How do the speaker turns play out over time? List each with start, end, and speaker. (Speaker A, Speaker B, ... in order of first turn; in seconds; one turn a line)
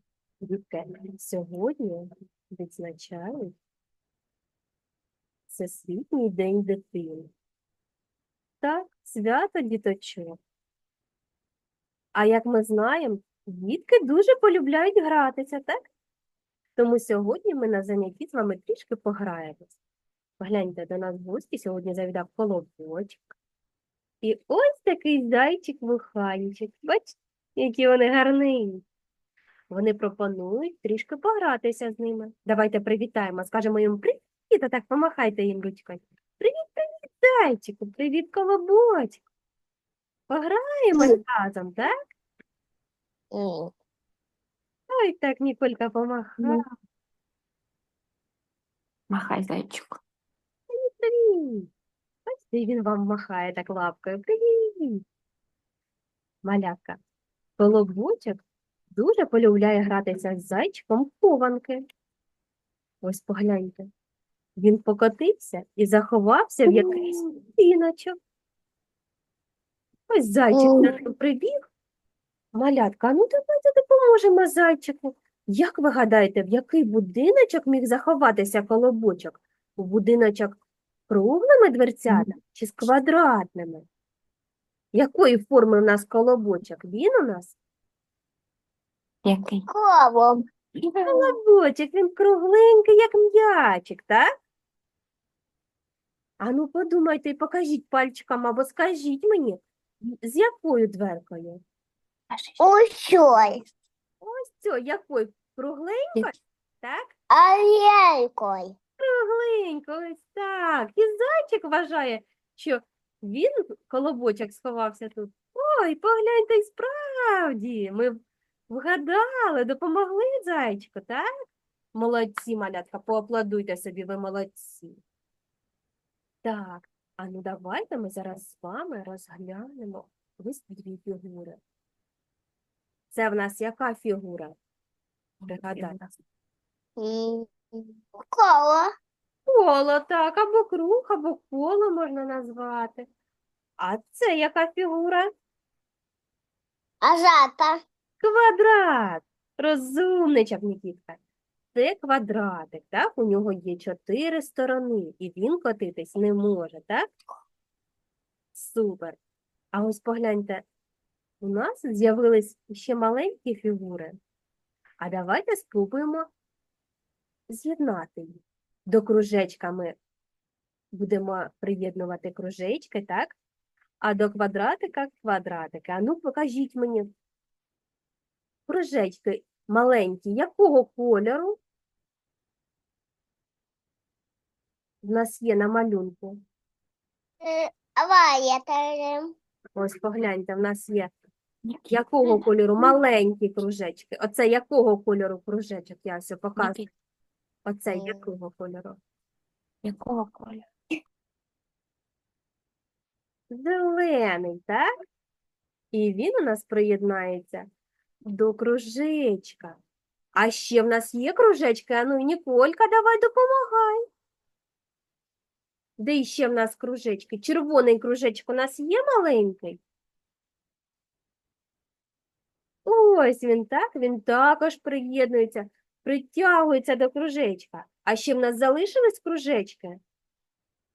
Speaker A: 0.4-3.5
Speaker A: 5.5-7.3
Speaker A: 8.6-10.4
Speaker A: 12.1-15.8
Speaker A: 16.8-19.7
Speaker A: 20.4-23.2
Speaker A: 24.2-28.8
Speaker A: 29.7-39.2
Speaker A: 40.3-41.9
Speaker B: 43.3-43.7
Speaker A: 44.9-46.6
Speaker C: 49.1-50.0
Speaker A: 50.7-51.7
Speaker A: 52.3-55.0
Speaker A: 56.4-57.0
Speaker A: 57.6-58.4
Speaker A: 58.9-61.8
Speaker A: 63.0-63.9
Speaker A: 64.6-68.1
Speaker B: 66.7-67.2
Speaker A: 70.1-71.6
Speaker B: 70.5-70.9
Speaker A: 72.5-80.6
Speaker A: 81.1-83.9
Speaker A: 84.9-87.5
Speaker C: 89.3-89.6
Speaker B: 89.7-90.4
Speaker A: 91.1-94.2
Speaker A: 96.4-99.6
Speaker A: 100.2-101.6
Speaker C: 102.3-102.7
Speaker B: 102.6-103.6
Speaker A: 104.2-107.1
Speaker B: 107.3-108.7
Speaker A: 109.0-118.2
Speaker A: 118.7-121.2
Speaker A: 121.9-125.0
Speaker A: 126.4-131.6
Speaker A: 133.1-134.5
Speaker C: 135.4-136.1
Speaker A: 135.5-136.0
Speaker B: 137.0-138.9
Speaker A: 139.5-143.1
Speaker A: 143.8-145.3
Speaker B: 147.0-147.8
Speaker A: 148.2-151.2
Speaker A: 151.7-157.1
Speaker A: 158.5-159.2
Speaker A: 159.7-160.6
Speaker A: 161.4-164.2
Speaker A: 165.0-166.3
Speaker A: 167.5-169.9
Speaker A: 170.9-173.4
Speaker A: 174.0-177.1
Speaker A: 178.7-181.6
Speaker A: 185.0-186.4
Speaker B: 187.4-189.3
Speaker A: 189.8-191.1
Speaker A: 191.9-196.8
Speaker A: 197.7-199.0
Speaker B: 197.9-198.2
Speaker C: 199.9-200.6
Speaker A: 203.5-204.8
Speaker A: 205.9-207.7
Speaker A: 208.2-209.8
Speaker A: 210.3-214.0
Speaker A: 216.0-219.8
Speaker A: 222.8-230.0